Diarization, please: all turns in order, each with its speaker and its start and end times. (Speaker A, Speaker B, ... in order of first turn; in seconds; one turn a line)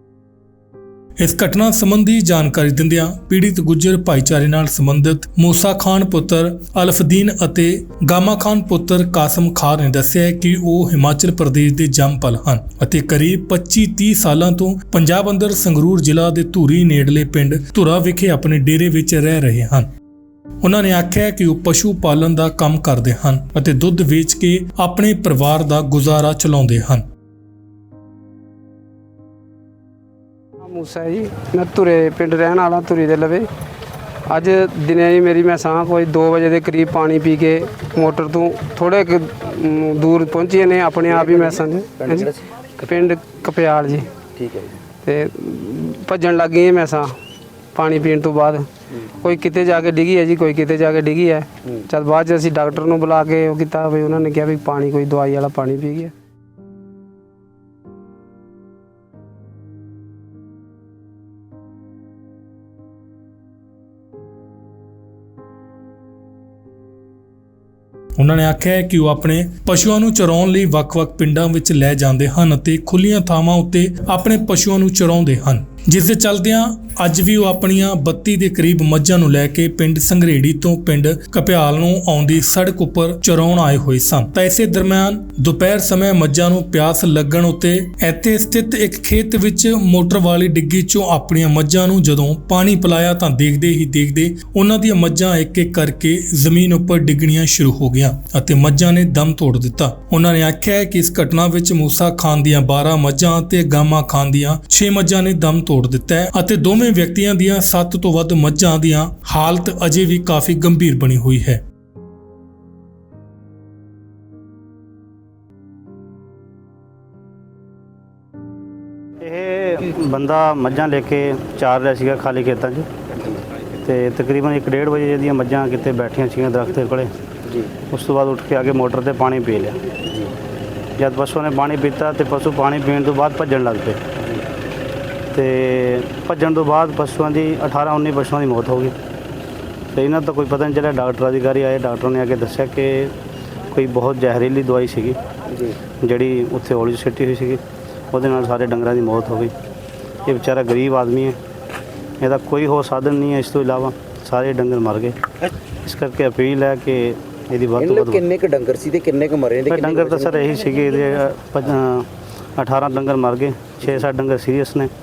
Speaker A: 1.2-19.9
Speaker A: 20.6-27.0
Speaker B: 30.7-33.5
Speaker B: 34.3-44.1
Speaker C: 44.4-44.8
Speaker B: 45.0-47.1
Speaker B: 47.8-56.1
Speaker A: 68.2-111.6
Speaker D: 119.2-122.9
Speaker D: 123.8-127.1
Speaker D: 127.9-129.8
Speaker D: 131.0-134.0
Speaker D: 135.3-138.9
Speaker D: 139.9-143.2
Speaker D: 143.7-145.2
Speaker D: 146.0-149.5
Speaker D: 150.2-151.4
Speaker D: 152.2-155.2
Speaker D: 155.8-158.2
Speaker C: 157.8-160.2
Speaker D: 159.7-164.9